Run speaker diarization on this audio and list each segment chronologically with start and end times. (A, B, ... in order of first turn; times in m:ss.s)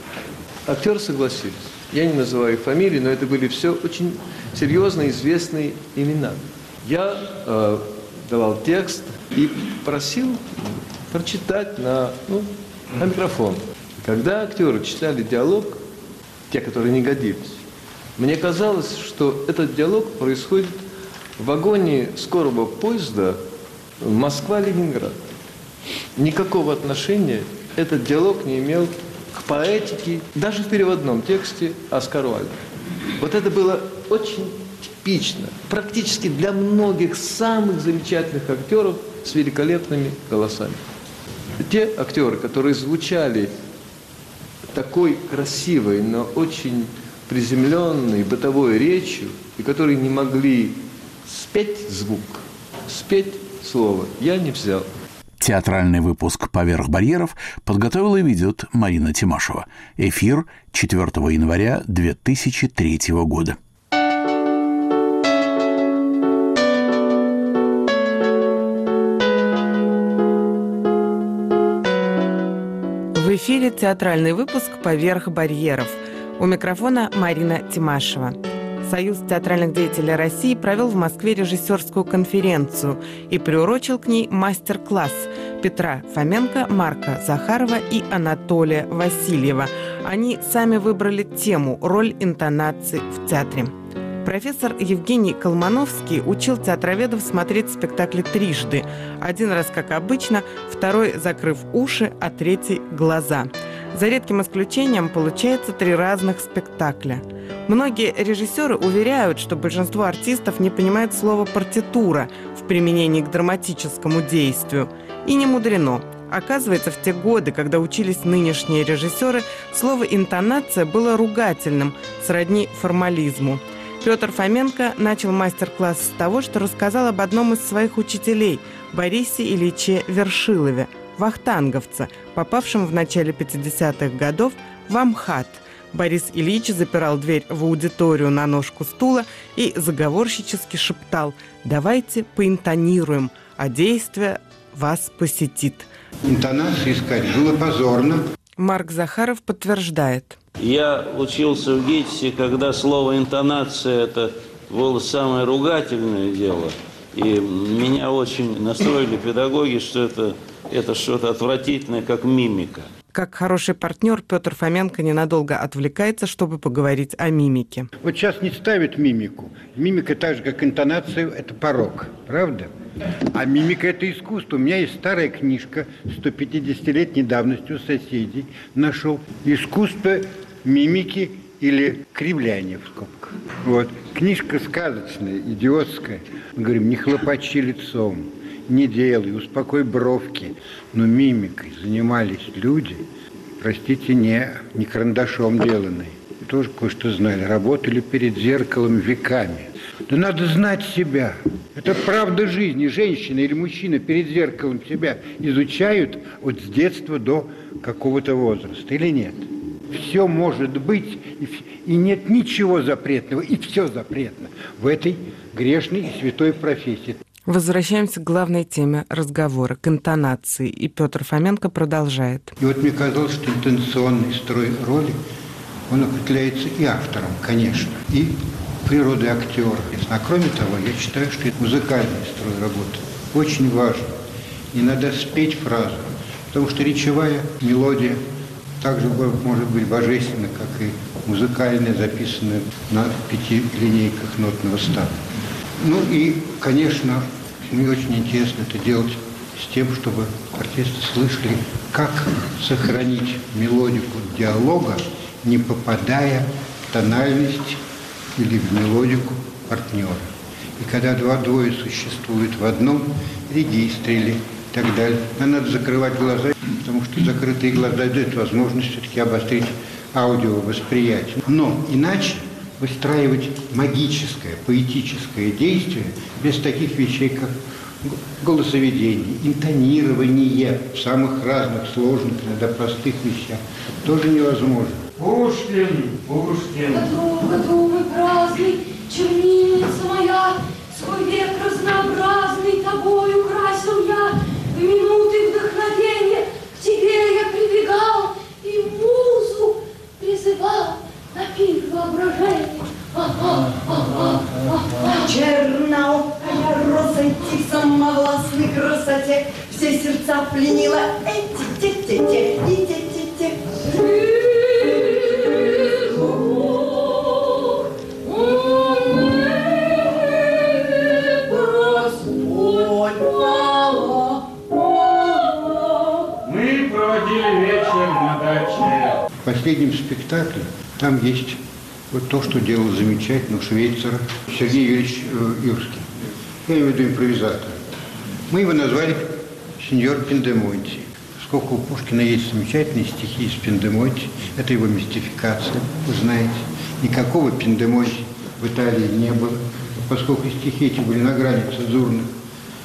0:00.7-0:15.8 A
0:16.5-0:17.6 A
0:18.2-0:20.8 A
0:21.4-0:23.4 A
0:24.0-0:25.2 A
0:26.2-0:32.6 A
0:33.2-0:40.8 A
0:41.6-0:43.5 A
0:44.7-0:54.9 A
0:55.4-1:03.6 B
1:13.2-1:33.7 C
1:34.2-2:25.9 C
2:26.3-2:28.2 D
2:28.6-2:30.4 C
2:30.6-2:42.9 E
2:43.1-2:47.9 C
2:48.0-2:52.7 D
2:53.3-3:13.0 D
3:13.6-3:37.2 D
3:37.5-3:42.6 C
3:42.6-3:45.2 D
3:45.9-3:54.2 D
3:54.7-3:58.2 D
3:58.8-4:05.2 D
4:05.8-4:17.8 D
4:18.4-4:45.0 D
4:45.2-4:47.1 F
4:46.9-5:05.4 G
5:05.3-5:13.5 H
5:13.9-5:17.2 G
5:18.3-5:25.7 G
5:26.5-5:29.1 F
5:29.4-5:31.6 D
5:32.1-5:36.1 D
5:36.6-5:37.8 D
5:38.5-5:52.3 D